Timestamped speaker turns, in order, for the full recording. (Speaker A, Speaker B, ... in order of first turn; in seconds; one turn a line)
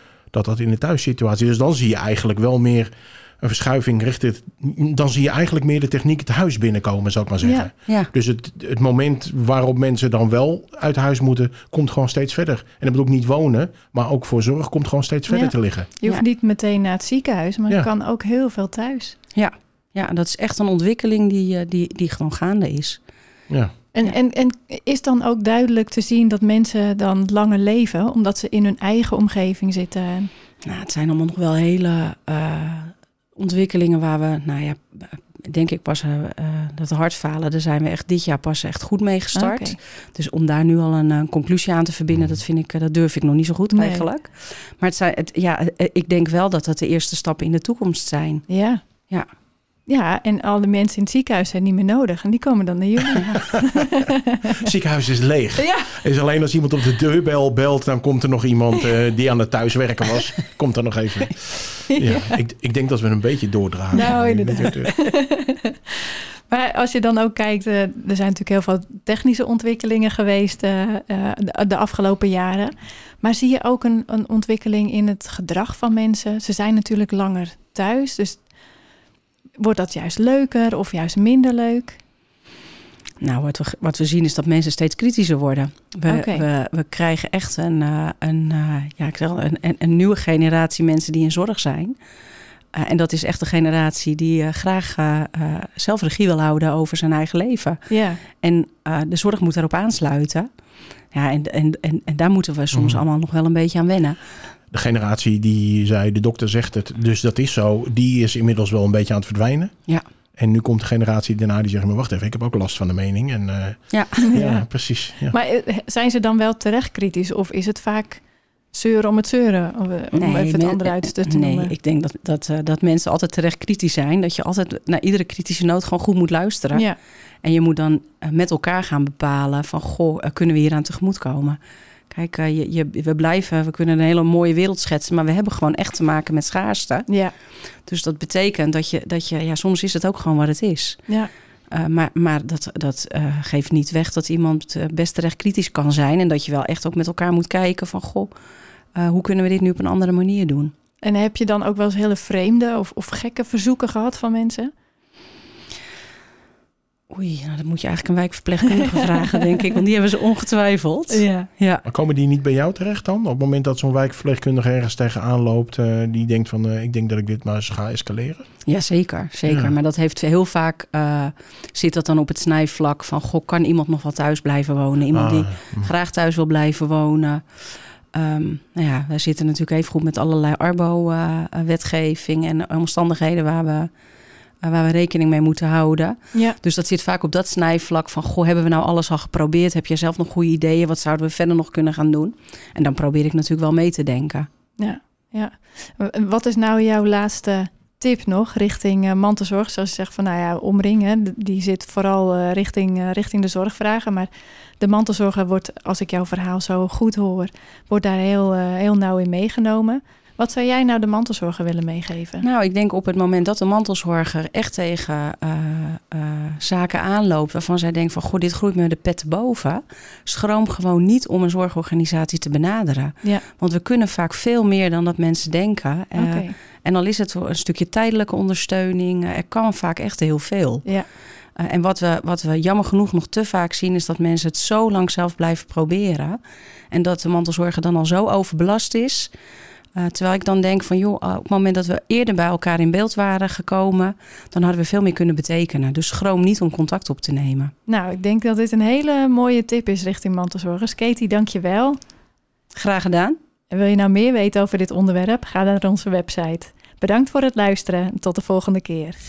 Speaker A: 0.3-15.9
Speaker B: 7.4-7.7
Speaker B: 15.3-19.2
Speaker C: 19.4-23.0
Speaker A: 23.5-23.8
Speaker B: 23.9-30.3
Speaker C: 30.6-48.5
Speaker B: 39.3-39.8
Speaker A: 42.1-42.4
Speaker B: 43.7-44.1
Speaker B: 48.5-48.8
Speaker B: 49.9-54.6
Speaker A: 54.5-64.9
Speaker B: 55.6-55.9
Speaker B: 61.9-62.3
Speaker B: 63.9-78.4
Speaker B: 79.6-82.0
Speaker C: 83.2-92.0
Speaker B: 86.1-86.5
Speaker C: 92.7-97.8
Speaker B: 97.9-98.2
Speaker C: 98.3-100.5
Speaker C: 101.1-104.4
Speaker A: 102.7-103.0
Speaker A: 104.7-109.7
Speaker A: 110.4-115.4
Speaker C: 113.9-114.3
Speaker B: 114.2-114.6
Speaker B: 115.3-118.2
Speaker B: 118.7-121.7
Speaker C: 120.1-126.9
Speaker C: 127.4-131.6
Speaker C: 132.1-137.1
Speaker C: 137.9-141.0
Speaker C: 141.7-148.3
Speaker C: 148.9-150.7
Speaker B: 151.0-154.7
Speaker C: 157.1-161.8
Speaker B: 158.8-159.7
Speaker B: 161.1-161.5
Speaker A: 161.9-168.5
Speaker C: 168.7-177.4
Speaker A: 169.5-169.7
Speaker A: 175.1-175.9
Speaker C: 178.1-183.9
Speaker C: 184.6-194.5
Speaker B: 194.8-212.4
Speaker C: 212.4-230.9
Speaker B: 226.2-226.6
Speaker C: 231.6-236.4
Speaker C: 236.9-239.3
Speaker C: 239.9-247.7
Speaker B: 247.9-252.0
Speaker C: 252.8-253.4
Speaker B: 253.7-259.2